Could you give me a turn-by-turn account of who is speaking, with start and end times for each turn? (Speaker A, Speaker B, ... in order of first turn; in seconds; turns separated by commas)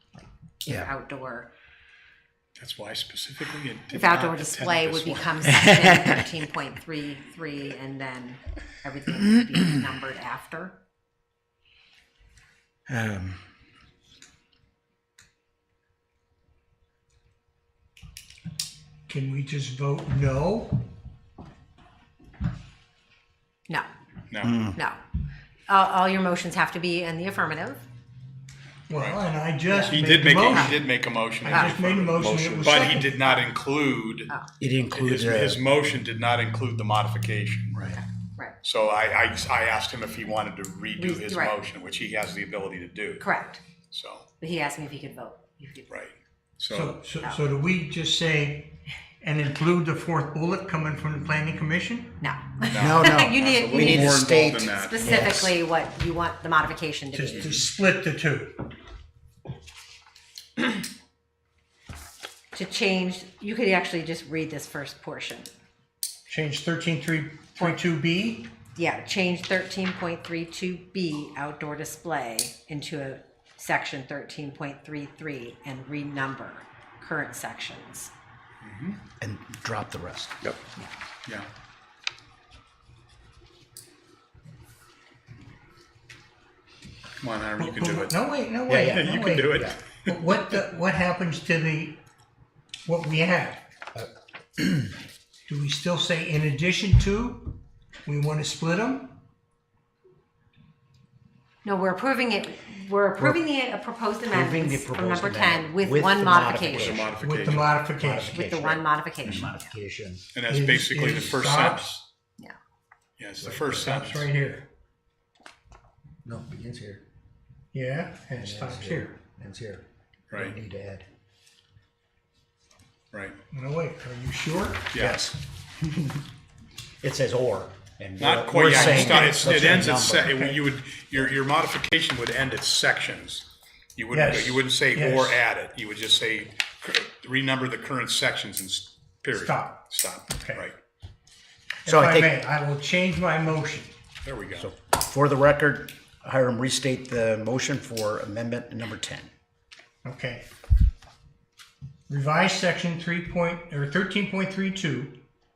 Speaker A: 0.7-0.9, Speaker B: 0.7-1.5, Speaker C: 2.6-5.5, Speaker B: 3.9-10.8, Speaker A: 12.9-13.4, Speaker D: 19.1-20.9, Speaker C: 24.3-24.6, Speaker A: 24.4-24.8, Speaker B: 24.7-25.0, Speaker B: 25.7-27.8, Speaker D: 28.9-30.9, Speaker C: 28.9-29.2, Speaker B: 29.7-30.8, Speaker C: 29.9-34.3, Speaker D: 31.4-33.2, Speaker B: 31.5-31.8, Speaker A: 34.6-35.6, Speaker C: 35.0-37.8, Speaker A: 37.7-38.0, Speaker B: 38.0-38.6, Speaker C: 38.6-43.2, Speaker B: 41.0-41.5, Speaker B: 43.2-43.6, Speaker C: 43.9-44.2, Speaker B: 44.4-45.9, Speaker C: 45.9-47.0, Speaker D: 46.7-52.2, Speaker B: 52.2-57.7, Speaker C: 52.7-55.0, Speaker A: 52.7-55.5, Speaker D: 57.1-58.6, Speaker B: 62.5-65.5, Speaker D: 66.3-68.5, Speaker B: 68.8-78.1, Speaker C: 78.6-79.0, Speaker A: 79.2-80.5, Speaker C: 87.2-90.5, Speaker D: 87.6-92.0, Speaker A: 88.7-89.8, Speaker D: 92.8-93.7, Speaker A: 94.0-94.8, Speaker D: 95.5-99.2, Speaker B: 101.6-107.1, Speaker A: 104.3-110.2, Speaker C: 106.7-107.8, Speaker D: 107.2-108.4, Speaker B: 108.3-109.7, Speaker C: 110.3-111.9, Speaker D: 110.5-112.0, Speaker C: 113.2-114.3, Speaker A: 113.4-114.0, Speaker D: 113.8-114.7, Speaker A: 116.2-117.0, Speaker D: 117.7-119.2, Speaker A: 118.4-121.0, Speaker D: 123.5-124.9, Speaker C: 124.9-125.2, Speaker A: 125.0-126.2, Speaker A: 127.0-130.5, Speaker C: 128.2-140.8, Speaker D: 128.7-130.4, Speaker D: 134.1-135.4, Speaker D: 139.3-140.7, Speaker D: 141.8-143.9, Speaker A: 141.9-142.3, Speaker C: 144.2-144.7, Speaker A: 144.6-149.3, Speaker D: 150.0-150.5, Speaker D: 152.1-155.2